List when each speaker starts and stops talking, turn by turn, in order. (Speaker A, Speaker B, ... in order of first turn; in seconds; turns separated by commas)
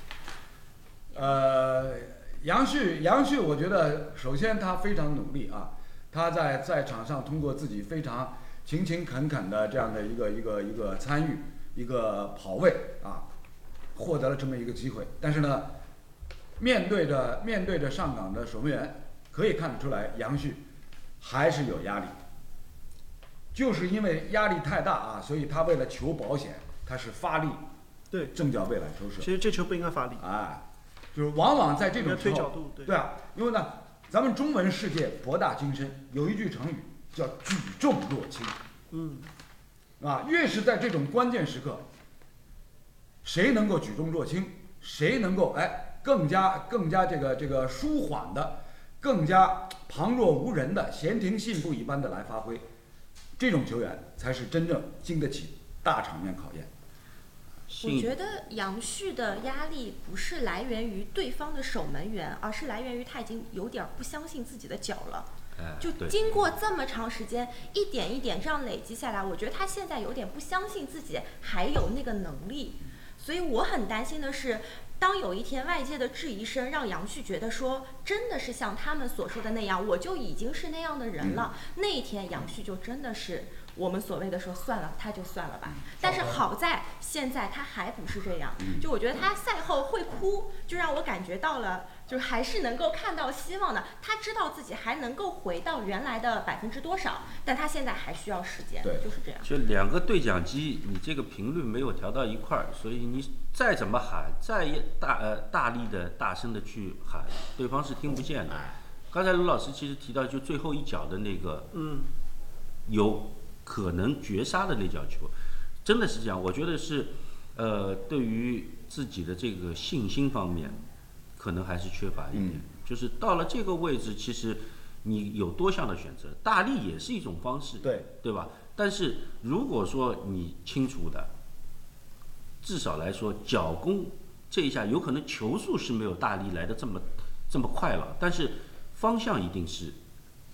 Speaker A: 1.1-13.3, Speaker A: 13.9-15.8, Speaker A: 16.6-20.6, Speaker A: 21.2-22.1, Speaker A: 23.5-27.7, Speaker B: 28.1-28.4, Speaker A: 28.3-29.3, Speaker B: 29.2-30.2, Speaker A: 30.2-38.6, Speaker B: 32.0-33.0, Speaker B: 38.9-39.3, Speaker A: 40.0-41.9, Speaker A: 43.2-52.6, Speaker A: 53.4-56.7, Speaker C: 57.7-58.1, Speaker D: 57.7-65.3, Speaker C: 65.5-66.2, Speaker D: 65.8-99.5, Speaker A: 85.7-86.0, Speaker C: 99.4-111.7, Speaker A: 108.5-108.8, Speaker B: 111.7-112.1, Speaker C: 112.8-115.3, Speaker C: 115.8-120.8, Speaker C: 121.4-131.3, Speaker A: 122.3-122.6, Speaker A: 127.8-128.1, Speaker C: 132.6-140.0